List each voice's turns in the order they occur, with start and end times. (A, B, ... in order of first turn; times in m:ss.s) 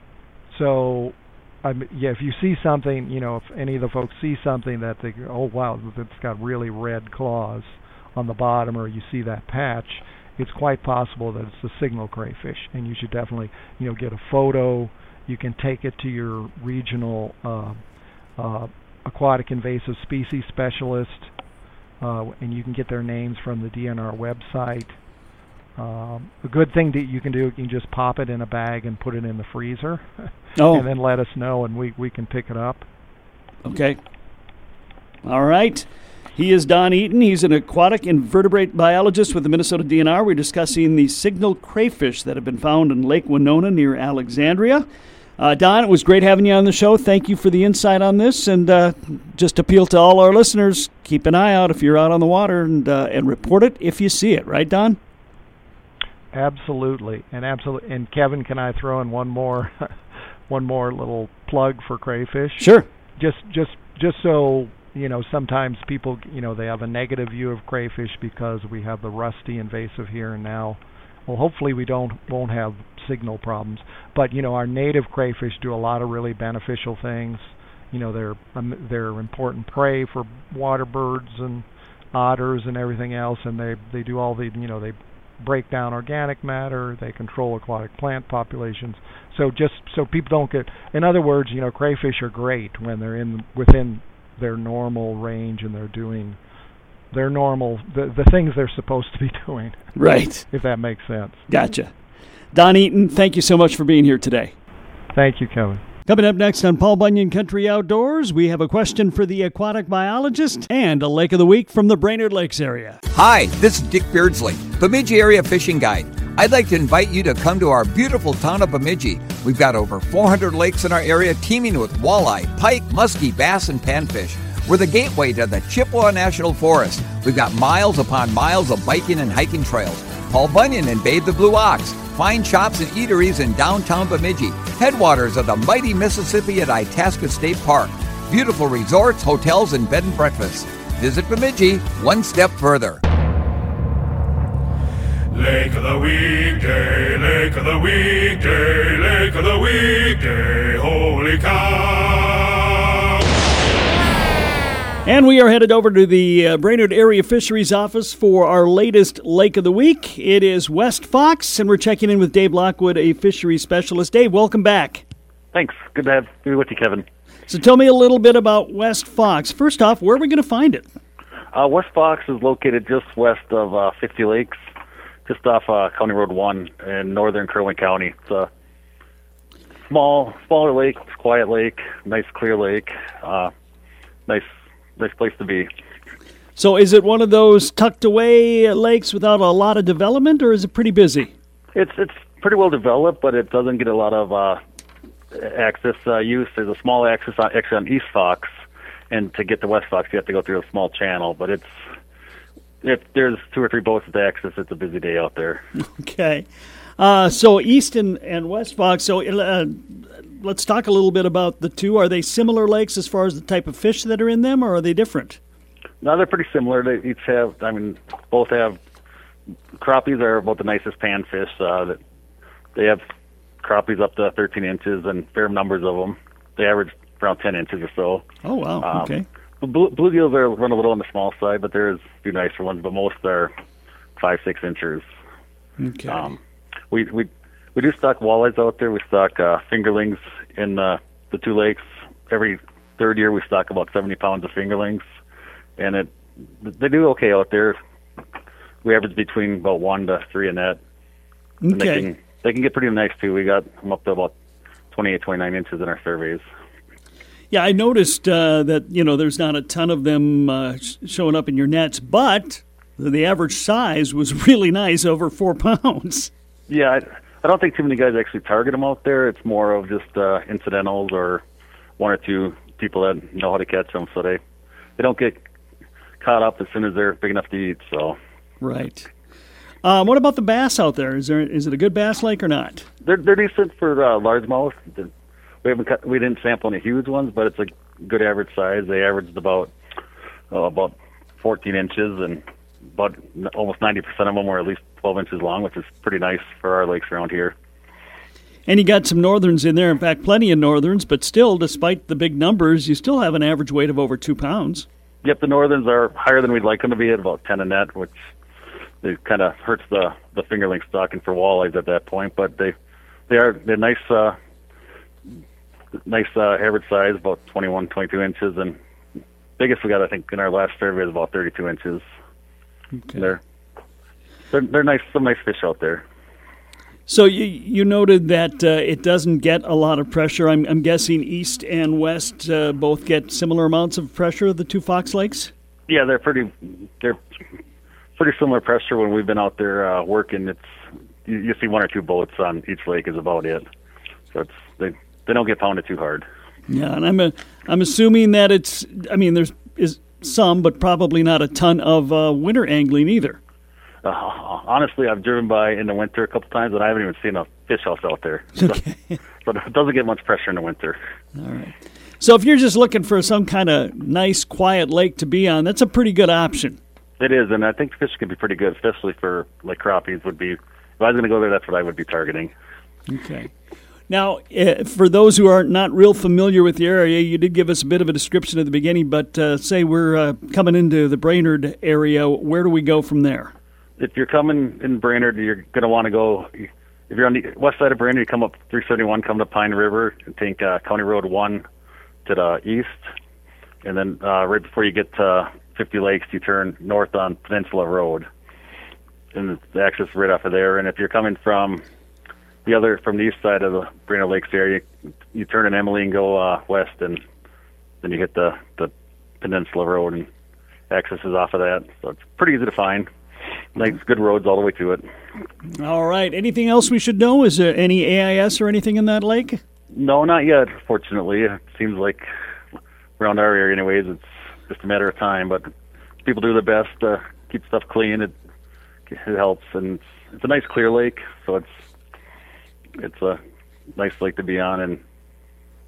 0:00.5-0:17.8 A
0:18.4-0:21.3 A
0:22.0-0:25.0 A
0:25.8-0:32.9 A
0:30.6-0:30.9 B
0:33.6-0:34.0 B
0:35.2-0:44.9 B
0:45.4-0:55.0 B
0:56.3-0:59.9 A
1:00.5-1:02.7 A
1:02.6-1:02.9 B
1:03.2-1:36.4 A
1:37.1-1:39.8 A
1:40.0-1:40.5 B
1:40.5-1:41.4 A
1:41.5-1:41.9 B
1:42.5-1:44.6 B
1:45.1-1:45.8 A
1:46.1-1:53.0 B
1:53.1-2:23.0 C
2:25.3-2:33.0 D
2:35.0-2:45.0 B
2:45.5-2:47.0 E
2:47.5-2:50.9 B
2:51.5-2:54.6 E
2:55.3-2:58.5 E
2:59.9-3:03.5 E
3:04.3-3:05.7 E
3:06.6-3:11.3 B
3:11.8-3:14.6 E
3:15.3-3:18.5 E
3:19.1-3:21.7 E
3:22.8-3:25.6 E
3:25.8-3:26.5 B
3:27.0-3:35.4 B
3:36.0-3:38.8 E
3:39.8-3:42.0 E
3:42.8-3:43.0 E
3:43.6-3:48.2 E
3:48.4-3:49.3 B
3:48.8-3:53.5 E
3:54.2-3:55.0 E
3:55.8-3:56.3 B
3:56.1-3:56.4 E
3:56.9-4:05.0 E
4:05.8-4:07.8 E
4:08.8-4:10.8 E
4:11.6-4:12.1 B
4:11.7-4:14.3 E
4:14.9-4:16.4 E
4:17.5-4:26.3 B
4:26.7-4:31.4 E
4:32.0-4:34.4 E
4:35.0-4:35.4 E
4:36.2-4:38.2 E
4:38.6-4:39.1 B
4:39.8-4:42.9 B
4:43.0-4:45.1 E
4:45.6-4:49.7 E
4:50.5-4:52.4 E
4:53.0-4:57.6 E
4:58.7-5:04.9 B
5:05.2-5:08.2 E
5:09.0-5:12.7 E
5:13.3-5:14.4 E
5:16.0-5:18.8 E
5:19.6-5:22.0 E
5:23.0-5:23.3 B
5:23.2-5:23.4 E
5:24.5-5:26.0 E
5:27.1-5:35.5 B
5:35.9-5:37.2 E
5:38.2-5:40.7 E
5:41.2-5:43.7 E
5:44.3-5:46.2 E
5:46.7-5:53.4 B
5:54.0-5:58.8 E
5:58.6-5:59.2 B
5:59.4-6:01.0 E
6:01.4-6:06.8 B
6:07.2-6:12.5 E
6:13.1-6:13.5 B
6:14.1-6:23.5 B
6:24.0-6:31.6 E
6:32.2-6:33.0 E
6:33.8-6:38.3 E
6:39.3-6:41.8 E
6:42.6-6:47.2 E
6:48.0-6:50.3 E
6:50.9-6:53.1 E
6:53.8-6:55.0 E
6:55.8-6:59.6 B
6:59.9-7:02.2 E
7:03.2-7:05.7 E
7:06.2-7:08.3 E
7:09.1-7:11.7 E
7:13.0-7:13.4 E
7:14.0-7:15.0 E